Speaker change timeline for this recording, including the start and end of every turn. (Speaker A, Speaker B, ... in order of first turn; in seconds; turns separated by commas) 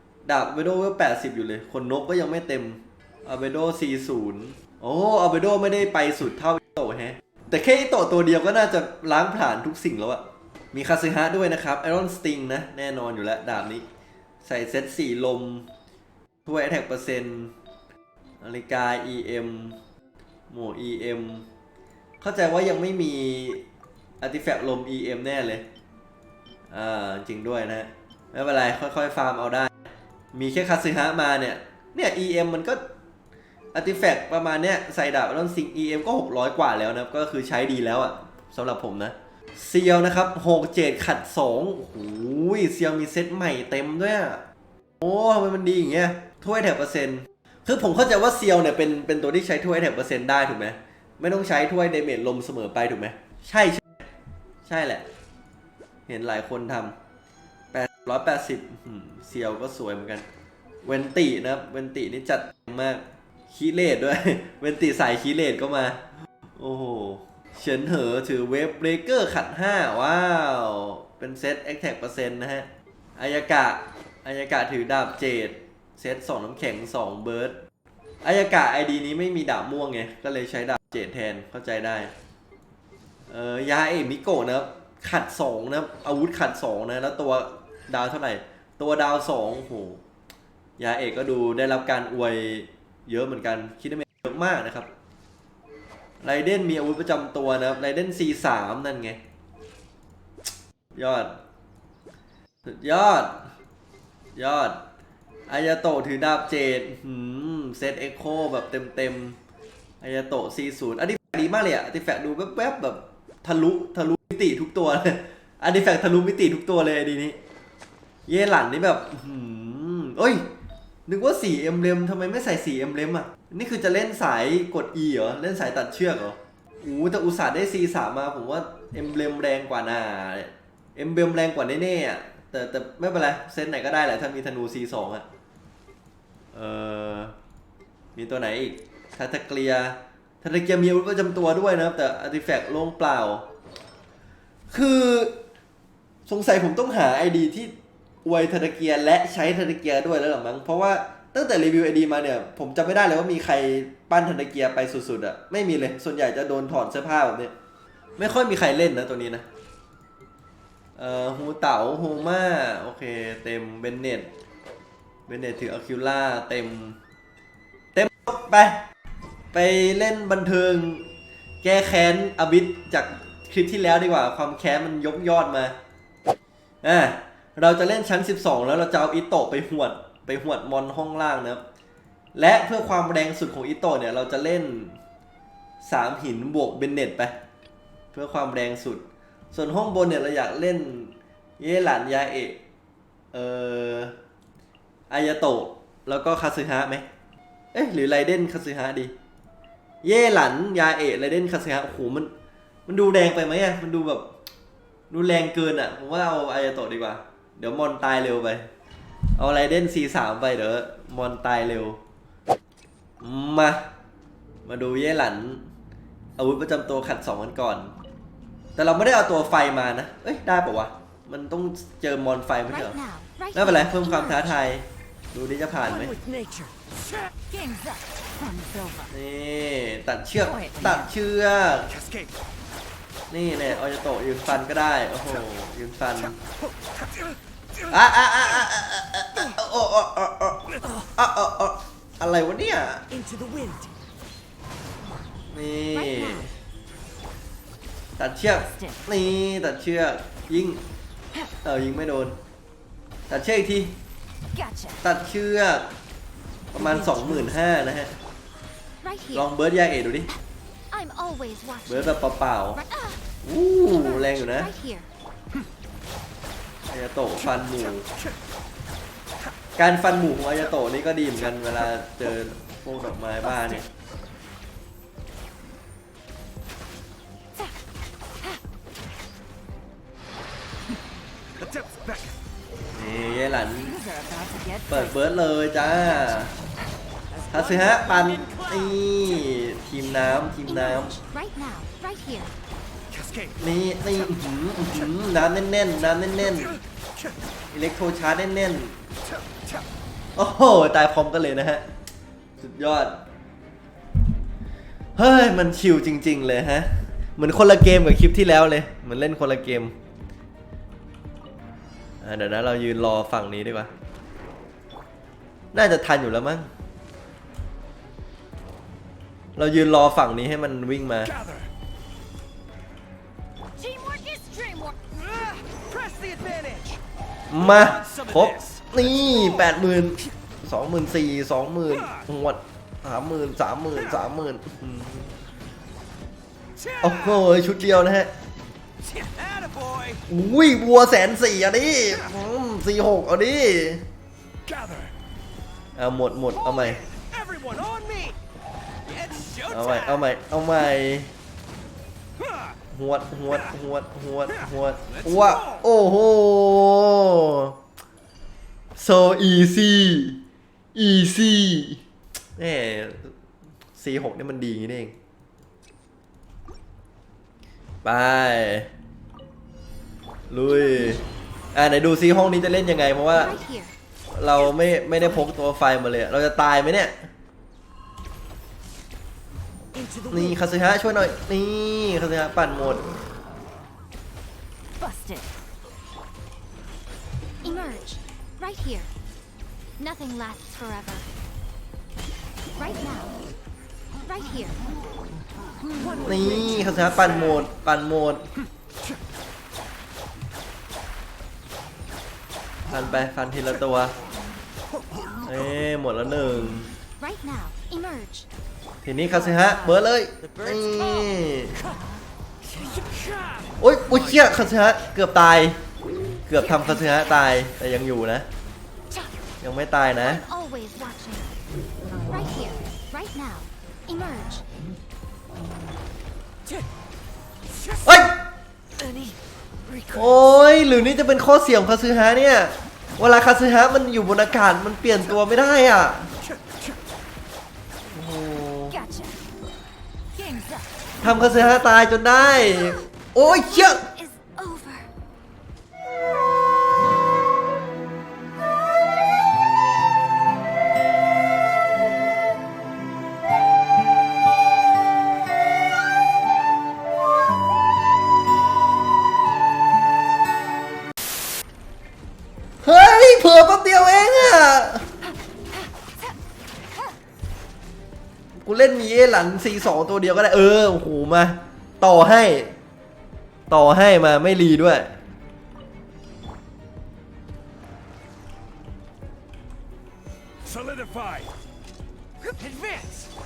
Speaker A: 0.2-13.8, Speaker A: 14.4-15.7, Speaker A: 16.4-17.5, Speaker A: 18.4-19.8, Speaker A: 20.5-21.4, Speaker A: 22.2-23.6, Speaker A: 24.2-25.6, Speaker A: 26.7-29.7, Speaker A: 30.3-32.8, Speaker A: 33.7-44.4, Speaker A: 45.0-54.1, Speaker A: 54.6-55.0, Speaker A: 56.1-57.0, Speaker A: 57.7-60.2, Speaker A: 60.8-66.0, Speaker A: 66.6-77.6, Speaker A: 78.2-82.1, Speaker A: 83.3-90.0, Speaker A: 90.8-94.9, Speaker A: 96.2-99.2, Speaker A: 101.0-101.3, Speaker A: 102.6-103.5, Speaker A: 104.3-104.8, Speaker A: 105.5-109.4, Speaker A: 110.0-117.4, Speaker A: 118.3-120.4, Speaker A: 121.1-135.2, Speaker A: 136.5-137.3, Speaker A: 138.1-143.4, Speaker A: 144.7-145.3, Speaker A: 146.2-157.5, Speaker A: 158.2-159.4, Speaker A: 160.9-164.3, Speaker A: 165.3-167.0, Speaker A: 167.9-168.8, Speaker A: 169.5-171.1, Speaker A: 171.6-175.8, Speaker A: 176.8-181.6, Speaker A: 182.3-185.0, Speaker A: 185.8-187.3, Speaker A: 188.1-192.6, Speaker A: 193.3-194.2, Speaker A: 195.1-197.1, Speaker A: 197.7-199.1, Speaker A: 200.0-202.3, Speaker A: 202.8-204.3, Speaker A: 205.1-208.7, Speaker A: 209.4-212.0, Speaker A: 213.2-213.8, Speaker A: 214.6-215.7, Speaker A: 216.4-217.9, Speaker A: 218.8-223.0, Speaker B: 222.7-224.6, Speaker A: 223.5-226.2, Speaker C: 226.2-226.7, Speaker B: 227.4-228.0, Speaker A: 229.1-231.9, Speaker A: 233.3-236.4, Speaker A: 237.9-243.1, Speaker C: 243.3-243.8, Speaker A: 245.5-246.5, Speaker B: 245.9-246.5, Speaker A: 248.2-250.8, Speaker B: 248.7-249.0, Speaker A: 251.6-252.4, Speaker A: 253.3-253.9, Speaker B: 254.5-255.0, Speaker A: 255.0-255.9, Speaker A: 256.7-258.2, Speaker B: 259.0-259.5, Speaker A: 259.3-260.3, Speaker B: 260.9-262.2, Speaker A: 261.9-262.8, Speaker B: 262.7-263.2, Speaker A: 263.4-264.7, Speaker B: 263.9-265.1, Speaker A: 266.9-268.1, Speaker A: 269.8-273.9, Speaker A: 282.9-284.0, Speaker A: 284.9-286.6, Speaker A: 287.5-291.2, Speaker B: 290.6-292.5, Speaker A: 293.6-296.8, Speaker A: 297.7-299.0, Speaker A: 300.4-301.8, Speaker A: 302.6-303.2, Speaker A: 305.1-309.9, Speaker A: 312.2-313.9, Speaker A: 315.7-316.7, Speaker A: 319.6-321.3, Speaker B: 323.8-325.3, Speaker C: 326.2-326.8, Speaker A: 327.5-335.3, Speaker A: 337.0-338.3, Speaker C: 339.4-339.9, Speaker A: 340.3-344.0, Speaker A: 345.9-347.0, Speaker C: 347.4-348.2, Speaker A: 349.6-351.3, Speaker A: 352.9-357.8, Speaker A: 358.9-360.4, Speaker A: 360.9-362.0, Speaker A: 362.6-363.3, Speaker A: 363.9-365.1, Speaker A: 368.0-368.9, Speaker A: 370.5-371.2, Speaker A: 371.7-373.6, Speaker B: 373.3-373.9, Speaker A: 374.3-377.1, Speaker A: 380.3-383.0, Speaker B: 385.0-385.5, Speaker B: 387.6-389.1, Speaker B: 390.0-391.3, Speaker B: 392.8-393.4, Speaker B: 394.2-394.8, Speaker A: 396.2-398.4, Speaker A: 402.9-404.1, Speaker A: 405.4-406.9, Speaker B: 407.2-408.5, Speaker A: 409.0-411.8, Speaker A: 413.8-415.8, Speaker A: 416.5-418.4, Speaker B: 416.5-417.5, Speaker A: 419.6-420.4, Speaker B: 420.1-421.6, Speaker B: 422.1-424.6, Speaker A: 428.0-428.4, Speaker A: 430.1-436.3, Speaker A: 438.1-438.9, Speaker B: 438.9-439.4, Speaker B: 440.3-440.9, Speaker A: 441.2-444.0, Speaker B: 443.4-445.1, Speaker A: 462.8-465.1, Speaker A: 468.6-472.7, Speaker A: 473.7-475.1, Speaker C: 482.6-483.0